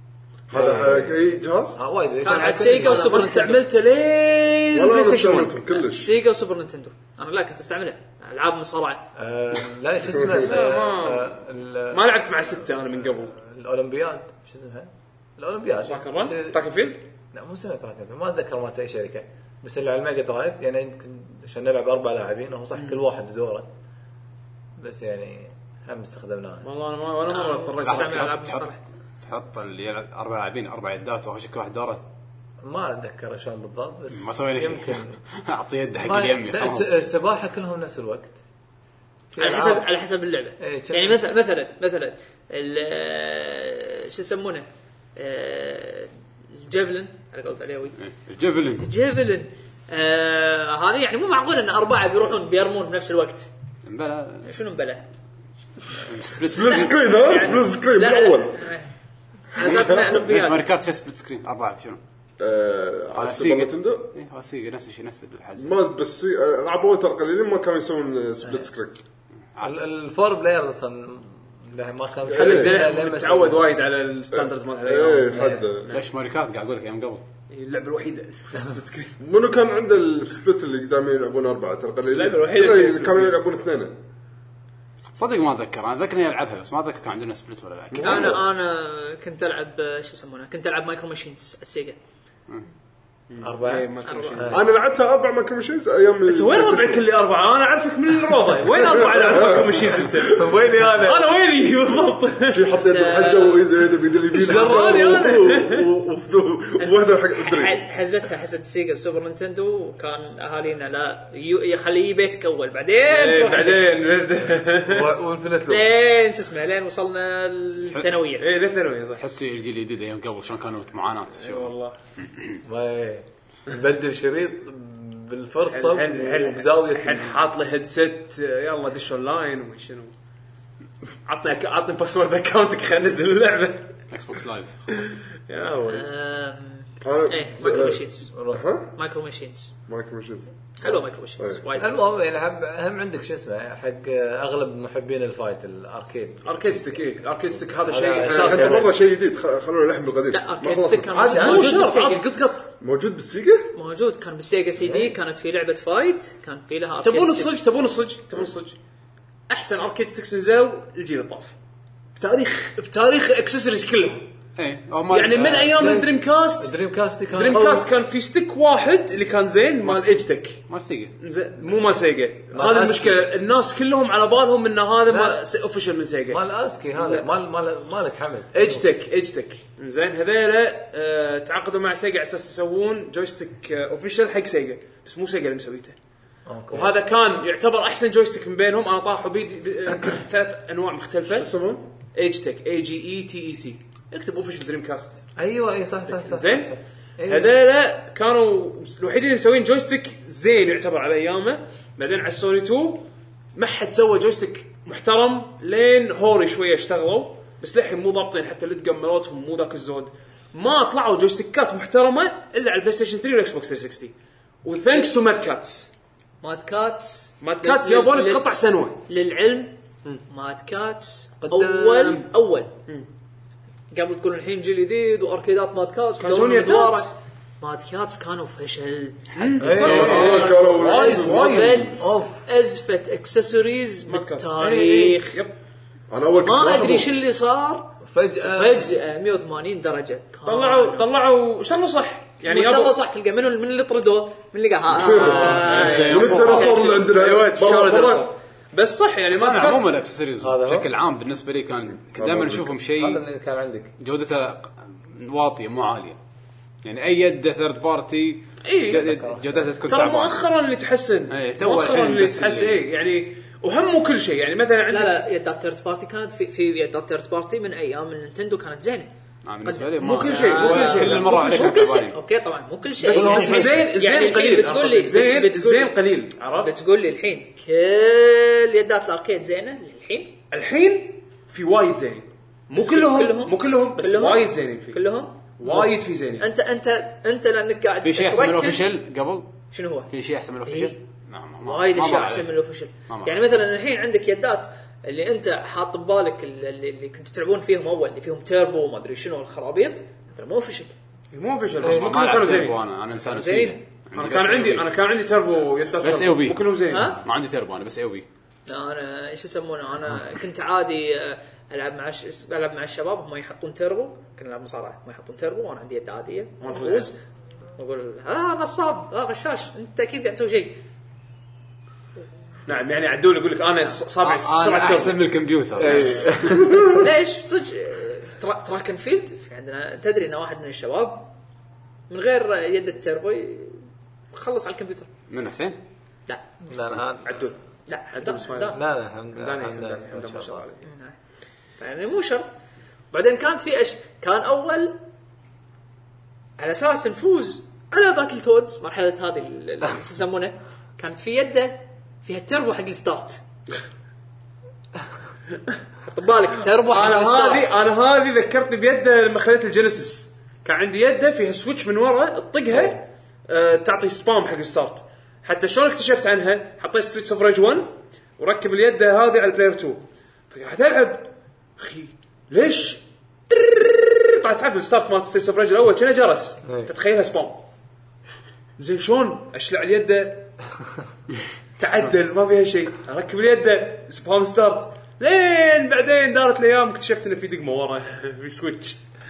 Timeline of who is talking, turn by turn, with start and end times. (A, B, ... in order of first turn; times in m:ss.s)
0:00.5-0:01.8 A
0:00.5-0:01.2 B
0:01.8-0:03.1 B
0:02.2-0:03.6 C
0:02.2-0:05.6 D
0:04.7-0:06.1 A
0:05.7-0:09.0 C
0:09.2-0:12.0 B
0:10.4-0:11.3 D
0:11.9-0:13.3 D
0:13.3-0:16.6 B
0:15.8-0:17.0 D
0:17.3-0:23.7 B
0:22.7-0:23.0 D
0:24.8-0:26.7 B
0:26.6-0:28.3 D
0:27.2-0:28.8 C
0:27.8-0:32.0 E
0:32.6-0:35.2 B
0:34.1-0:36.9 E
0:36.0-0:38.4 B
0:39.3-0:39.9 B
0:39.4-0:48.0 C
0:40.6-0:41.2 B
0:48.0-0:48.9 E
0:48.8-0:53.5 C
0:53.8-0:54.5 E
0:54.4-0:55.0 C
0:56.0-0:57.0 E
0:56.5-0:58.7 A
0:56.6-0:58.9 C
0:59.5-1:00.6 C
0:59.6-1:00.1 A
0:59.6-1:02.0 E
1:02.4-1:04.1 A
1:03.2-1:05.7 E
1:05.6-1:09.0 A
1:09.6-1:13.7 B
1:12.3-1:12.8 A
1:12.3-1:16.0 D
1:14.3-1:15.9 A
1:15.3-1:15.6 B
1:15.9-1:17.2 E
1:17.5-1:19.2 D
1:19.2-1:24.0 A
1:22.1-1:23.4 D
1:25.1-1:28.4 E
1:27.9-1:28.4 A
1:28.0-1:32.0 C
1:33.3-1:34.6 D
1:33.4-1:34.6 B
1:34.0-1:34.5 C
1:34.5-1:37.1 A
1:36.2-1:42.7 D
1:38.7-1:40.5 A
1:40.2-1:41.3 B
1:42.5-1:47.8 A
1:42.9-1:43.7 C
1:44.3-1:45.9 D
1:44.5-1:44.9 C
1:46.8-1:53.8 C
1:53.1-1:55.1 D
1:54.8-1:55.8 B
1:55.7-1:58.4 C
1:58.4-1:59.2 D
1:59.2-2:02.6 E
2:01.4-2:02.0 D
2:02.6-2:07.4 B
2:05.7-2:10.1 D
2:11.2-2:13.9 D
2:14.1-2:14.9 E
2:14.9-2:16.0 D
2:15.9-2:18.3 C
2:17.0-2:18.9 A
2:17.6-2:18.6 B
2:18.9-2:19.7 C
2:19.9-2:21.7 A
2:20.8-2:22.0 C
2:21.8-2:28.9 B
2:26.4-2:28.9 D
2:28.2-2:31.4 A
2:30.3-2:32.3 C
2:31.1-2:32.7 D
2:31.3-2:31.6 B
2:32.8-2:33.7 A
2:33.7-2:37.5 C
2:34.8-2:35.1 B
2:37.0-2:38.8 D
2:39.5-2:41.5 D
2:42.2-2:44.3 D
2:44.6-2:45.5 E
2:45.1-2:46.7 D
2:45.3-2:47.9 B
2:47.3-2:50.6 D
2:49.8-2:51.2 E
2:51.2-2:56.4 D
2:52.5-2:53.2 B
2:55.1-2:55.4 B
2:56.3-2:58.8 B
2:56.9-2:57.3 D
2:58.5-3:06.0 D
3:06.4-3:06.9 B
3:06.7-3:11.5 D
3:11.3-3:11.8 A
3:12.1-3:15.2 D
3:15.4-3:17.5 B
3:16.0-3:16.7 D
3:17.2-3:35.9 D
3:36.4-3:38.5 C
3:37.4-3:39.0 D
3:39.1-3:39.7 C
3:40.3-3:42.7 C
3:41.4-3:42.3 D
3:43.9-3:55.4 C
3:46.2-3:47.1 D
3:49.3-3:52.0 D
3:49.6-3:50.5 B
3:49.7-3:50.3 E
3:49.8-3:51.8 A
3:51.1-3:52.4 B
3:54.1-3:55.6 D
3:54.6-3:55.2 B
3:56.1-3:57.1 A
3:56.4-4:01.1 C
3:58.0-3:58.9 B
4:00.4-4:03.0 D
4:02.4-4:07.0 C
4:04.9-4:08.3 A
4:05.0-4:06.8 E
4:05.6-4:09.9 D
4:09.3-4:13.2 E
4:10.4-4:10.9 B
4:12.2-4:12.8 A
4:13.0-4:13.9 B
4:14.0-4:16.2 E
4:16.8-4:20.4 E
4:18.6-4:19.0 D
4:18.9-4:19.8 B
4:19.8-4:25.2 D
4:21.3-4:22.8 E
4:24.9-4:29.1 C
4:29.4-4:32.2 E
4:29.6-4:36.0 C
4:30.0-4:31.8 D
4:33.0-4:36.7 D
4:33.1-4:33.8 B
4:36.6-4:40.4 C
4:40.5-4:45.0 D
4:42.8-4:48.9 C
4:45.6-4:46.5 D
4:48.0-4:49.5 E
4:49.7-4:50.1 C
4:50.1-4:52.5 E
4:50.6-4:51.0 C
4:51.6-5:00.9 C
4:53.1-4:53.4 E
5:01.3-5:02.8 D
5:01.8-5:04.9 E
5:03.2-5:03.8 C
5:04.1-5:07.2 D
5:06.0-5:08.2 E
5:06.9-5:07.2 C
5:08.7-5:17.2 C
5:16.6-5:17.1 D
5:17.8-5:20.8 C
5:22.6-5:25.2 D
5:24.2-5:26.8 E
5:25.8-5:26.7 B
5:25.8-5:26.8 D
5:26.7-5:31.3 C
5:32.1-5:35.1 C
5:35.3-5:35.8 E
5:36.3-5:36.7 C
5:36.7-5:37.4 B
5:37.2-5:37.6 D
5:37.9-5:38.8 C
5:38.1-5:38.8 D
5:38.7-5:40.6 B
5:39.3-5:40.9 D
5:40.8-5:41.2 C
5:41.8-5:42.5 C
5:43.1-5:45.0 C
5:46.6-5:53.4 C
5:56.0-5:57.8 C
5:56.8-6:17.6 D
6:18.8-6:20.5 D
6:21.8-6:29.0 D